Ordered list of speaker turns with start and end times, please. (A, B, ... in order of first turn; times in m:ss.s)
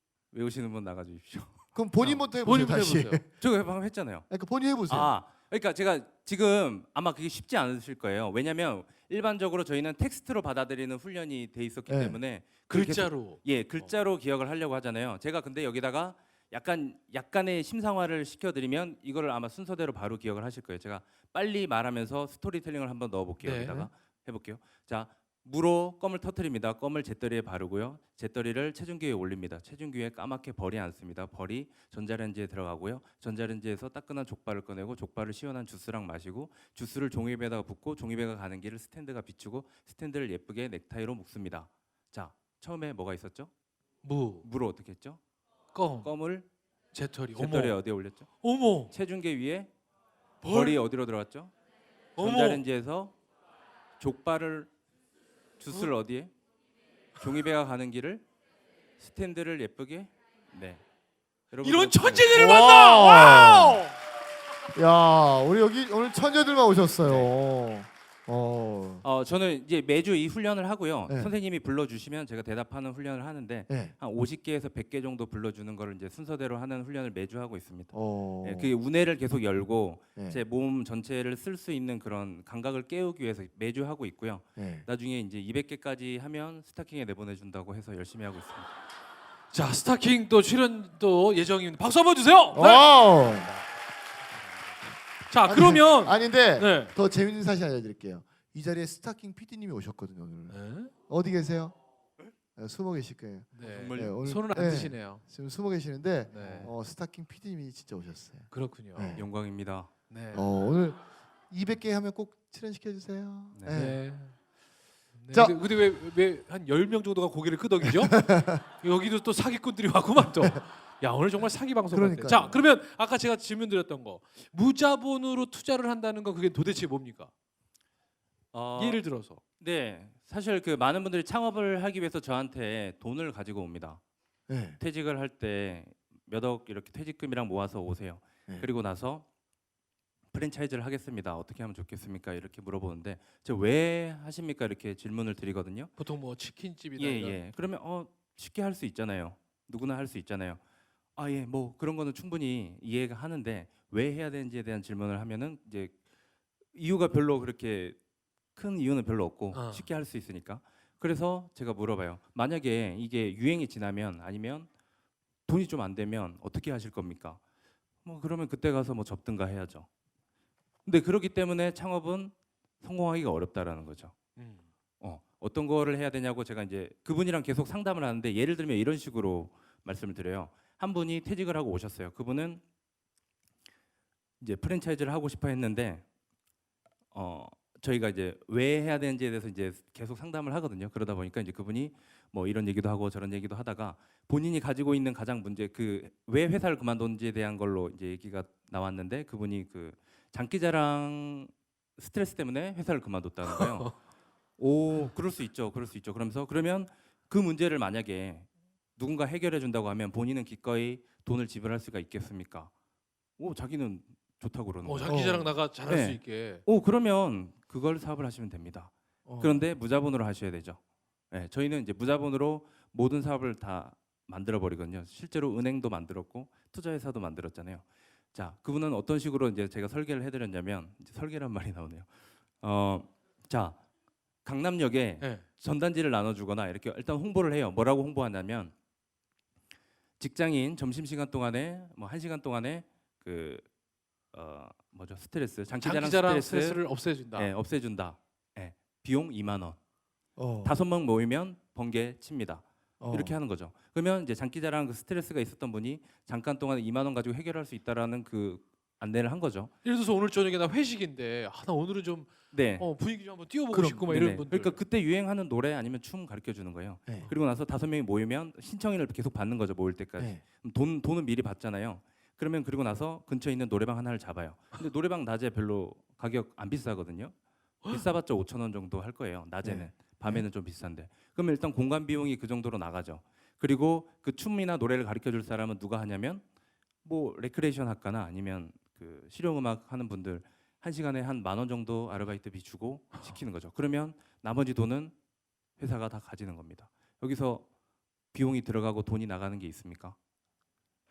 0:00.3-0:01.6 A
0:01.7-0:03.3 B
0:02.0-0:03.2 C
0:03.4-0:04.3 A
0:04.3-0:05.2 B
0:04.9-0:43.5 A
0:11.9-0:12.2 B
0:12.7-0:13.9 C
0:23.4-0:23.9 C
0:44.0-0:44.5 C
0:44.4-0:45.2 A
0:45.7-0:46.1 C
0:46.0-0:46.5 A
0:46.9-0:47.8 C
0:47.4-0:48.3 A
0:48.4-0:48.9 C
0:48.9-0:49.7 A
0:50.4-0:50.8 C
0:50.5-0:51.5 A
0:52.2-0:52.6 C
0:52.2-0:53.2 A
0:54.0-0:54.7 A
0:55.6-0:56.3 A
0:57.2-0:58.2 A
0:59.0-1:00.8 A
1:01.5-1:02.5 A
1:01.6-1:04.0 C
1:02.3-1:03.8 B
1:04.7-1:09.0 B
1:07.0-1:07.3 A
1:09.0-1:28.7 A
1:11.1-1:11.4 B
1:13.7-1:14.0 B
1:17.9-1:18.7 B
1:20.2-1:20.4 B
1:24.6-1:24.9 B
1:29.5-1:32.9 C
1:32.5-1:33.5 B
1:35.3-1:36.9 C
1:35.5-1:41.8 B
1:40.5-1:40.9 C
1:42.6-1:49.3 B
1:43.6-1:45.2 C
1:43.6-1:44.2 A
1:46.3-1:46.7 C
1:48.5-1:49.2 C
1:49.2-1:49.9 A
1:50.1-1:50.5 C
1:50.3-1:54.0 B
1:53.5-1:53.8 A
1:53.7-1:54.4 C
1:55.2-2:07.3 C
1:58.0-1:58.6 B
2:01.9-2:02.6 B
2:08.5-2:09.0 A
2:08.8-2:09.4 C
2:09.6-2:14.0 A
2:14.5-2:14.8 B
2:14.8-2:19.3 A
2:20.3-2:25.9 A
2:26.0-2:27.4 C
2:27.0-2:30.6 A
2:31.2-2:36.0 A
2:36.7-2:38.0 A
2:38.6-2:44.7 A
2:39.5-2:39.9 C
2:45.5-2:47.4 A
2:48.0-2:49.9 A
2:50.9-2:54.2 A
2:54.4-2:54.6 C
2:55.0-3:02.6 A
3:04.4-3:06.0 A
3:07.1-3:23.9 A
3:23.4-3:23.9 C
3:24.6-3:32.7 A
3:33.4-3:35.2 A
3:34.8-3:36.6 C
3:35.1-3:35.5 B
3:35.9-3:40.8 A
3:39.3-3:39.7 B
3:41.3-3:52.1 A
3:52.6-3:53.8 A
3:54.4-3:58.7 A
3:55.2-3:55.5 C
4:00.2-4:03.7 A
4:04.3-4:06.8 A
4:05.8-4:07.5 C
4:07.4-4:09.8 A
4:10.4-4:10.8 B
4:10.6-4:19.7 A
4:13.0-4:13.4 B
4:19.8-4:24.8 C
4:22.5-4:22.9 A
4:23.7-4:24.1 B
4:24.1-4:37.4 A
4:27.1-4:27.3 B
4:30.2-4:30.4 B
4:37.9-4:46.4 A
4:39.6-4:40.5 B
4:47.0-4:55.1 A
4:53.1-4:53.4 C
4:55.8-4:57.7 A
4:58.3-5:00.2 A